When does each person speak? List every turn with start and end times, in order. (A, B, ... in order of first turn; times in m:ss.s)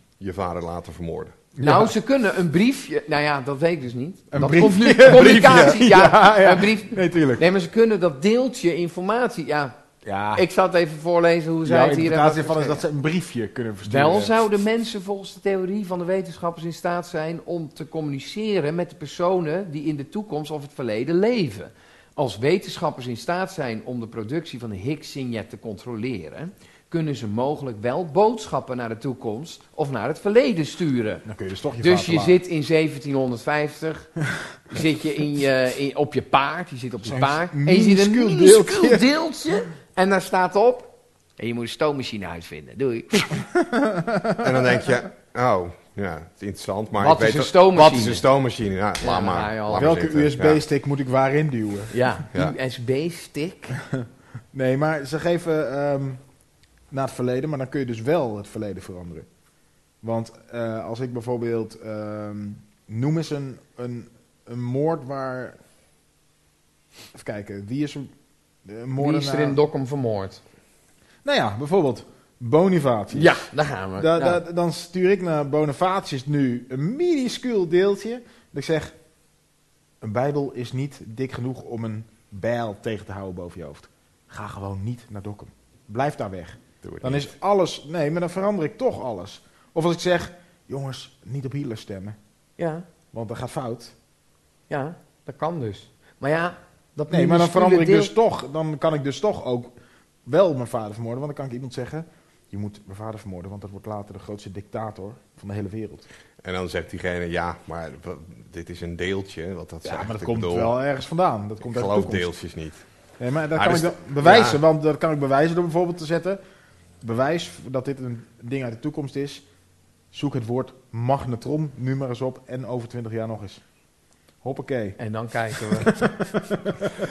0:00.2-0:01.4 A
0:01.6-0:01.9 B
0:01.6-0:09.8 C
0:04.3-0:07.4 B
0:10.0-0:10.5 B
0:10.4-0:12.8 C
0:11.6-0:14.4 B
0:13.8-0:31.2 C
0:31.2-0:32.4 B
0:31.8-0:34.1 C
0:34.7-0:43.4 C
0:37.0-0:39.1 B
0:43.5-0:44.8 B
0:44.4-0:50.6 A
0:47.0-0:48.2 C
0:49.0-0:50.0 C
0:49.8-0:51.9 B
0:51.9-0:53.8 C
0:53.9-0:56.2 B
0:56.9-0:59.3 B
1:00.0-1:05.6 B
1:07.1-1:08.1 B
1:08.6-1:09.6 B
1:09.0-1:10.4 C
1:11.2-1:18.9 B
1:13.1-1:14.4 C
1:20.0-1:32.2 B
1:26.8-1:27.3 A
1:32.6-1:32.9 C
1:33.1-1:33.9 B
1:34.7-1:38.1 C
1:37.1-1:39.8 B
1:40.2-1:46.0 B
1:46.4-1:50.8 A
1:49.8-1:52.3 B
1:51.6-1:52.8 A
1:53.2-1:56.4 B
1:53.5-1:54.6 A
1:57.0-1:59.4 B
2:00.1-2:03.6 B
2:04.4-2:05.0 B
2:05.0-2:06.0 C
2:05.5-2:06.8 B